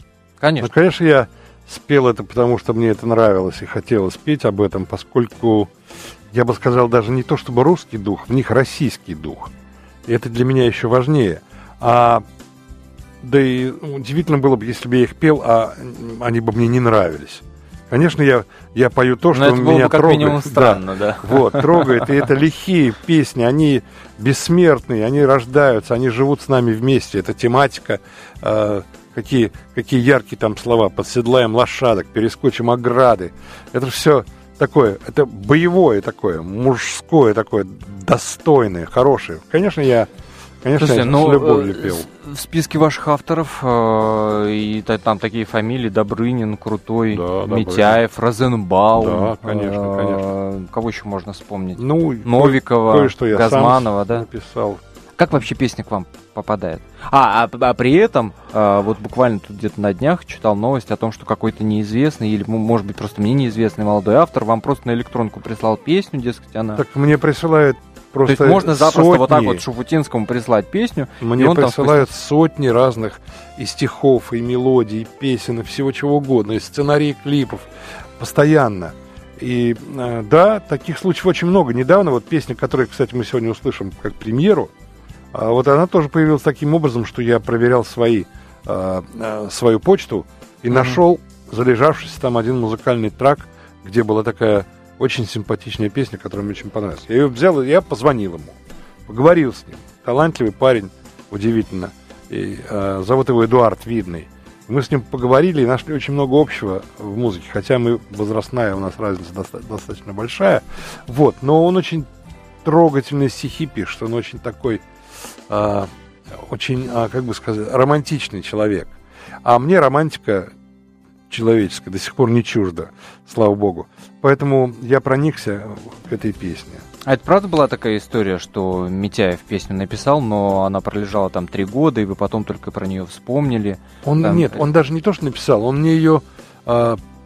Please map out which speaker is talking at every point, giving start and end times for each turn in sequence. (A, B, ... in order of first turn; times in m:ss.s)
0:00.4-0:00.7 A
0:00.6-0:05.7 B
0:06.3-0:09.5 B
0:10.1-0:12.2 B
0:13.2-0:40.1 B
0:19.3-0:22.1 A
0:40.6-0:42.1 B
0:40.8-0:54.3 A
0:47.1-0:48.0 B
0:49.0-0:50.3 B
0:51.8-0:54.8 B
0:55.2-1:06.8 A
1:06.8-1:09.6 B
1:08.3-1:12.1 A
1:11.2-1:24.7 B
1:25.3-1:52.1 B
1:30.7-1:31.0 A
1:52.6-1:54.8 B
1:55.5-1:58.9 B
1:59.4-2:00.5 B
2:01.3-2:06.8 B
2:07.0-2:14.6 A
2:14.0-2:17.0 B